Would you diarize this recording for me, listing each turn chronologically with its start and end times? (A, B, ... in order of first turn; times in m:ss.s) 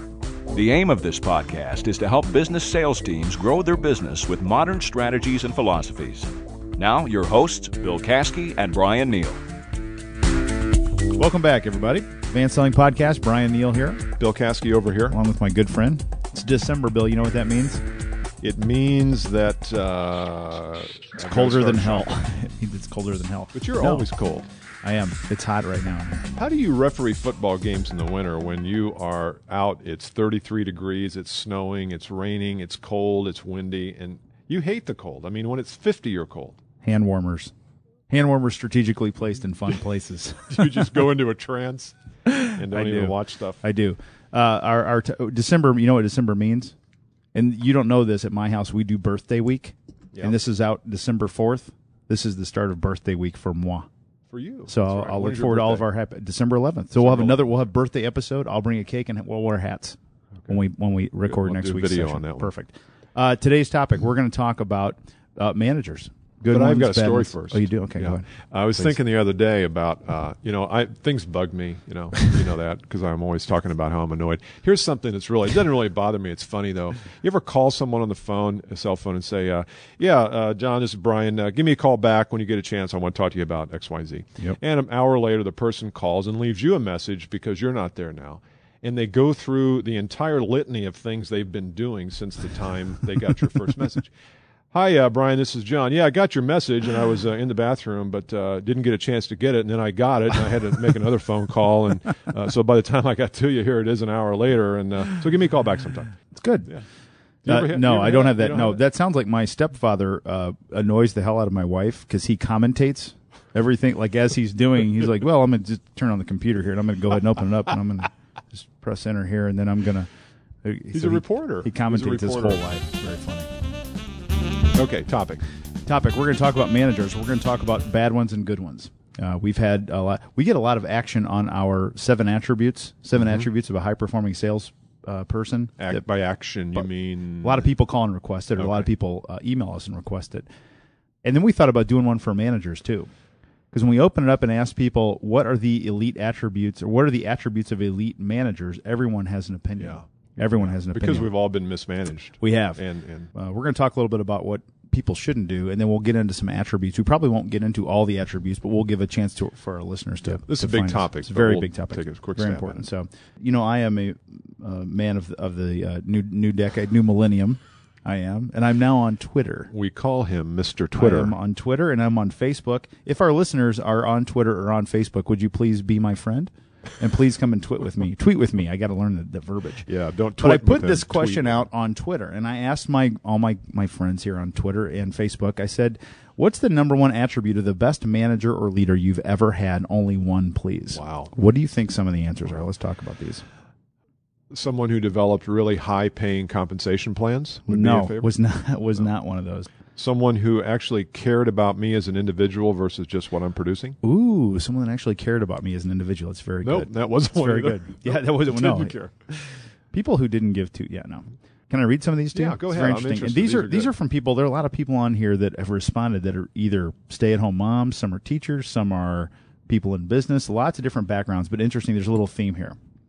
0:00.5-0:09.4 A
0:11.1-0:14.0 B
0:14.2-0:15.2 C
0:15.1-0:17.8 B
0:18.4-0:22.2 C
0:21.2-0:24.1 B
0:23.5-0:24.5 C
0:24.8-0:26.3 B
0:26.4-0:36.6 C
0:36.8-0:37.5 B
0:38.1-0:40.9 B
0:40.5-0:43.6 C
0:42.3-0:46.7 B
0:47.3-0:53.9 B
0:54.3-0:55.8 C
0:54.7-1:08.3 B
0:56.9-0:57.4 C
1:01.3-1:02.5 C
1:06.5-1:34.1 C
1:34.7-1:46.2 C
1:46.3-1:46.7 B
1:47.4-1:48.8 C
1:47.4-2:00.1 B
2:00.6-2:03.5 B
2:00.9-2:02.6 C
2:04.7-2:05.4 C
2:05.8-2:16.0 B
2:15.8-2:17.7 C
2:17.4-2:20.5 B
2:18.6-2:18.9 C
2:21.2-2:23.1 B
2:23.7-2:31.3 B
2:29.8-2:33.3 C
2:32.4-2:32.8 B
2:33.3-2:49.7 B
2:40.4-2:42.8 C
2:49.7-2:51.4 C
2:50.9-2:59.9 B
2:59.8-3:01.6 C
3:00.4-3:13.4 B
3:10.9-3:11.3 C
3:14.5-3:18.3 C
3:17.7-3:19.7 B
3:20.0-3:24.0 C
3:24.0-3:29.0 B
3:26.6-3:29.1 C
3:29.9-3:42.8 B
3:32.3-3:33.9 C